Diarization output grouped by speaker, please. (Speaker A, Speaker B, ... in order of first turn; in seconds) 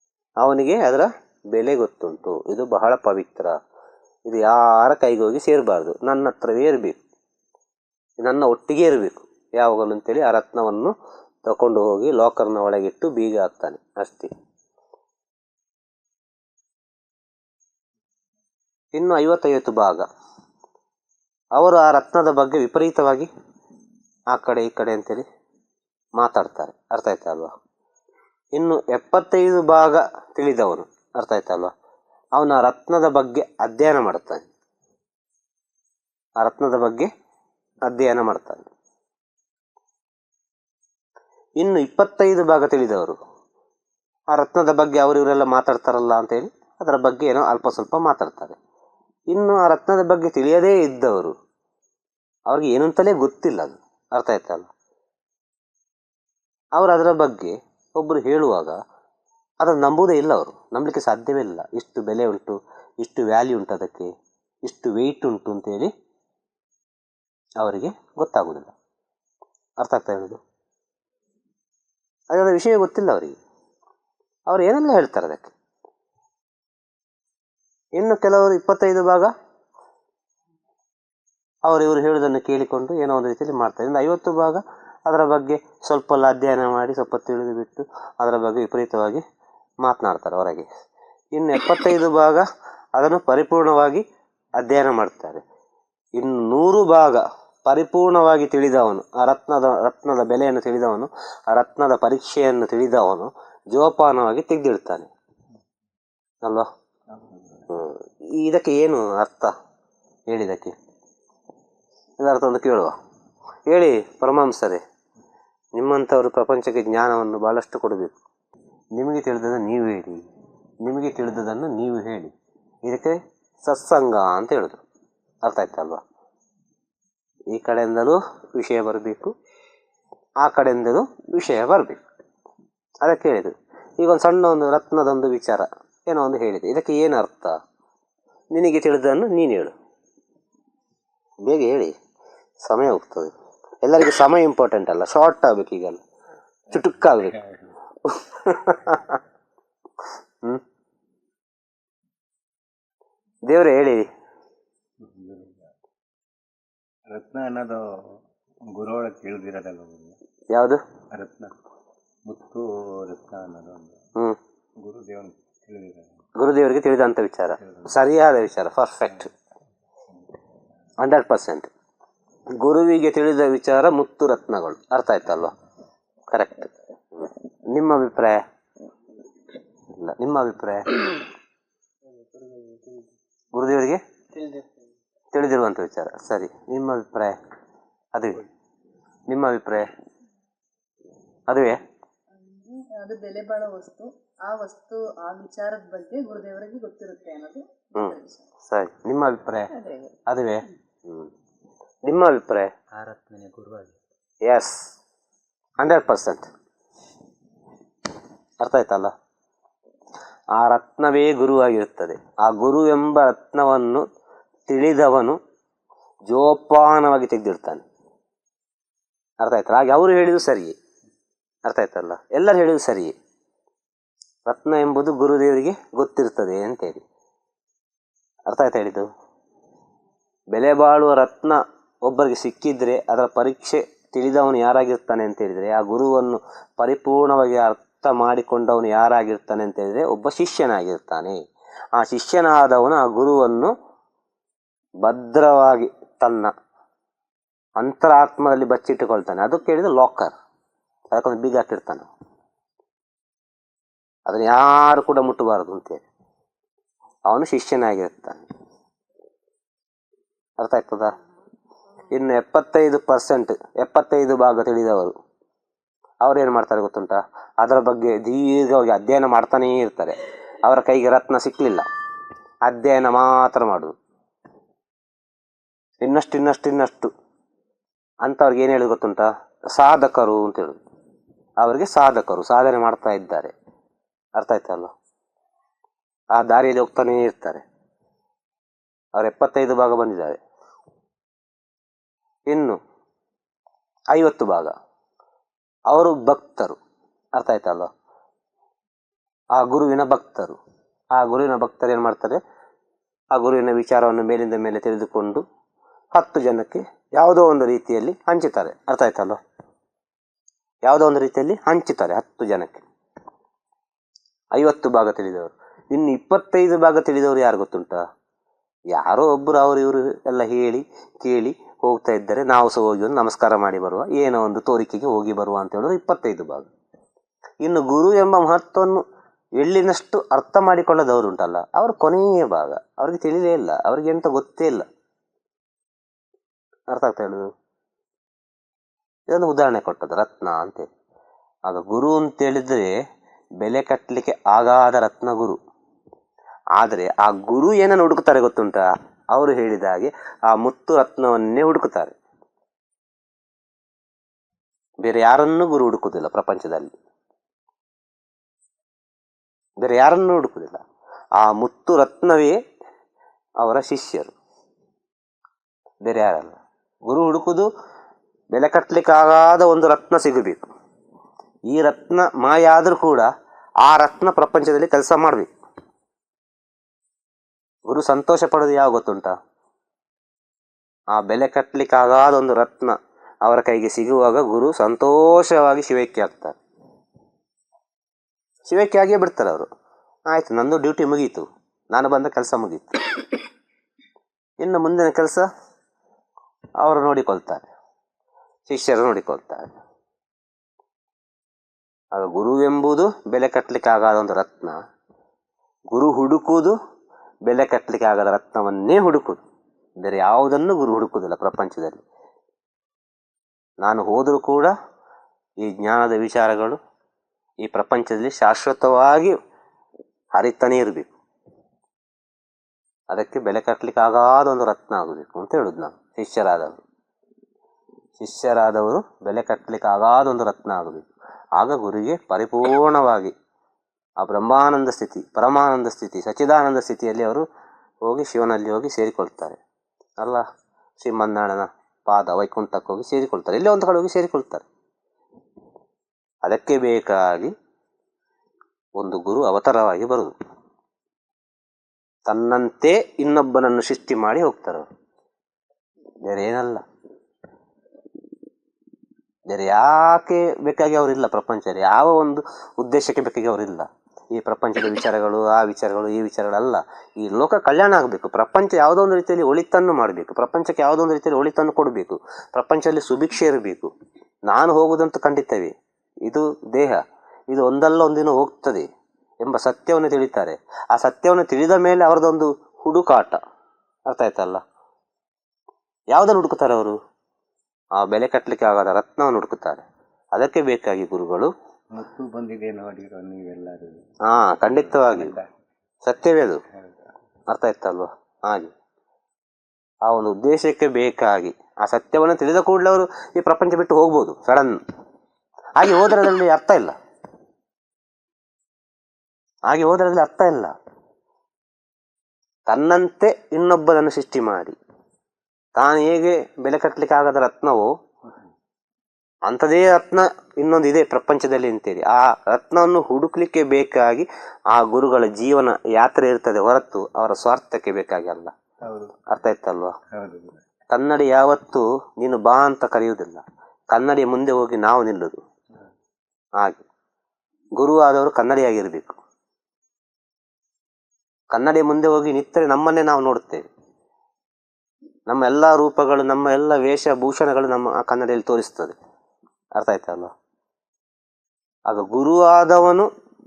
Speaker A: 0.4-3.5, 4.3-7.0, 8.2-10.9, 11.4-14.3, 18.9-20.1, 21.6-23.3, 24.3-25.2, 26.2-27.5, 28.6-31.7, 32.4-34.5, 36.4-37.1, 37.9-38.7, 41.6-43.2, 44.3-48.6, 49.3-51.3, 52.5-54.7, 56.8-58.8, 59.6-64.1, 64.7-65.9, 67.6-68.7, 69.8-70.4, 72.3-73.4, 74.5-75.5, 78.0-79.3, 81.7-89.2, 89.8-90.7, 91.3-92.4, 93.0-94.0, 94.6-95.4, 96.2-105.1, 106.4-106.7, 107.7-109.5, 110.3-110.7, 112.2-112.9, 113.7-114.8, 115.8-118.2, 119.0-120.2, 120.8-122.3, 122.8-124.8, 125.4-126.0, 127.5-129.3, 130.4-132.0, 133.0-137.6, 138.5-139.7, 141.4-141.9, 142.6-143.3, 143.8-146.0, 146.7-147.4, 148.1-149.2, 153.5-154.1, 160.5-160.8, 166.4-169.3, 171.0-171.7, 172.6-175.5, 176.3-178.4, 179.9-180.9, 183.5-184.0, 185.3-187.4, 188.2-188.5, 189.3-189.9, 191.5-191.8, 197.9-199.8, 200.3-201.3, 202.1-202.7, 204.5-204.7, 205.8-206.5, 208.6-209.1, 210.6-214.0, 214.7-215.4, 216.3-217.8, 219.4-220.7, 221.7-223.1, 224.5-227.0, 228.5-229.1, 230.5-241.4, 241.9-243.7, 245.0-246.5, 247.8-250.3, 251.1-252.1, 254.3-256.1, 257.3-258.4, 260.6-261.1, 262.1-265.1, 266.2-271.9, 272.6-273.9, 276.0-277.1, 278.2-280.8, 281.6-283.5, 284.4-284.9, 286.3-287.6, 289.2-290.4, 292.5-292.8, 294.1-294.7, 295.9-296.8, 297.4-297.9, 299.6-300.6, 301.1-302.4, 303.4-305.4, 306.1-309.4, 310.9-312.9, 314.6-318.0, 318.9-326.7, 327.6-329.0, 329.6-334.8, 336.9-337.5, 339.3-340.9, 341.7-343.0, 343.6-345.6, 346.8-352.1, 355.0-356.9, 359.8-360.8, 361.4-362.6, 363.6-364.3, 366.0-367.7, 368.5-370.7, 371.7-373.3, 373.8-375.5, 377.9-379.4, 381.1-386.6, 388.7-389.7, 390.3-393.0, 394.6-395.5, 396.8-397.7, 398.7-399.8, 402.1-404.8, 405.9-406.8, 407.5-409.4, 410.0-412.0, 413.8-414.7, 415.6-416.8, 417.6-419.4, 420.4-421.1, 423.1-426.8, 428.2-433.3, 434.2-437.4, 438.1-439.6, 441.0-444.7, 446.4-447.5, 449.0-450.3, 452.3-454.9, 456.2-456.8, 459.5-473.9, 474.5-475.7, 476.3-478.9, 479.4-483.4, 484.1-484.6, 486.1-487.0, 488.0-489.8, 490.4-491.5, 494.2-495.3, 496.1-496.6, 497.5-498.7, 500.1-504.8, 505.8-506.9, 509.7-510.7, 512.7-514.8, 515.8-517.9, 519.5-528.5, 529.3-529.9, 530.9-535.4, 537.8-539.2, 541.5-543.6, 545.3-549.0, 549.8-550.3, 551.9-553.1
Speaker B: 107.1-107.7, 155.0-155.7, 157.1-157.8, 158.7-160.2, 161.1-161.5, 162.3-164.0, 164.8-166.1, 167.6-167.9, 203.0-203.9, 491.9-494.0, 494.9-495.5, 528.8-529.2, 530.1-530.6
Speaker C: 182.5-182.9, 192.7-197.6